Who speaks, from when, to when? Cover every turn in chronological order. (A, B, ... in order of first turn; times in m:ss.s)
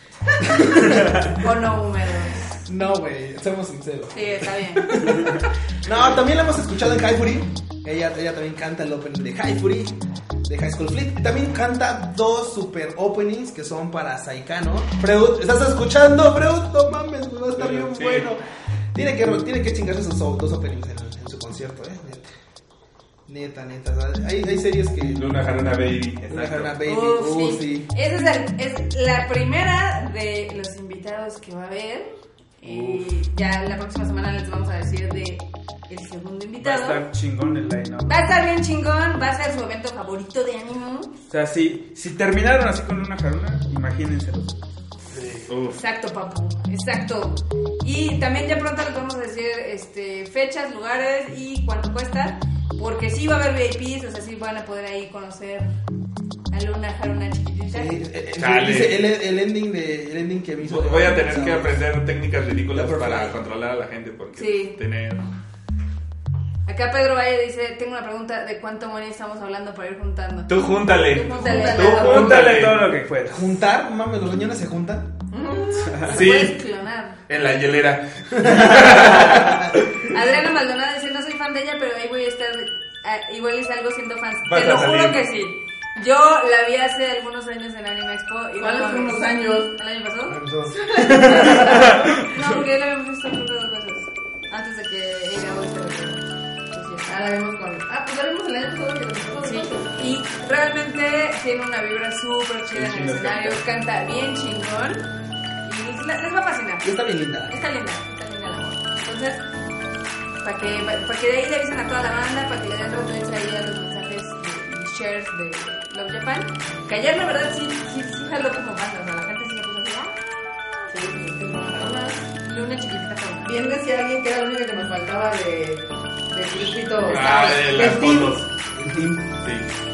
0:00.4-0:01.4 A
0:01.4-0:02.6 B
0:02.6-0:18.4 A
0:04.1-0:05.4 B
0:17.6-0:18.3 C
0:18.9-0:22.3 A
0:23.3-0:25.5 A
0:25.1-0:26.7 C
0:26.2-0:27.9 A
0:26.8-0:37.0 B
0:32.7-0:33.0 C
0:36.6-0:38.3 D
0:38.0-0:41.2 B
0:41.3-0:44.6 D
0:45.1-0:45.5 A
0:45.5-0:45.8 C
0:45.7-0:55.7 B
0:56.5-0:58.0 B
0:57.7-1:01.8 A
0:58.4-0:59.0 C
1:00.6-1:05.2 C
1:02.7-1:03.4 A
1:04.4-1:04.8 B
1:06.7-1:12.5 B
1:10.5-1:12.9 C
1:11.3-1:12.4 E
1:11.8-1:13.5 D
1:13.2-1:15.1 A
1:15.3-1:16.1 E
1:16.0-1:16.6 C
1:16.0-1:17.2 B
1:17.3-1:19.8 C
1:18.4-1:19.7 A
1:20.0-1:30.4 B
1:24.4-1:25.2 C
1:28.6-1:29.7 E
1:30.3-1:31.8 A
1:30.8-1:31.9 E
1:30.9-1:37.1 B
1:37.0-1:40.1 E
1:39.4-1:45.1 B
1:42.7-1:43.5 D
1:42.9-1:43.4 C
1:45.6-1:46.9 B
1:46.8-1:47.6 A
1:47.5-1:49.4 B
1:50.4-2:00.9 B
2:00.9-2:02.3 E
2:02.4-2:03.5 B
2:03.4-2:08.4 E
2:07.0-2:08.5 C
2:07.1-2:07.8 B
2:08.7-2:09.2 A
2:09.3-2:09.7 C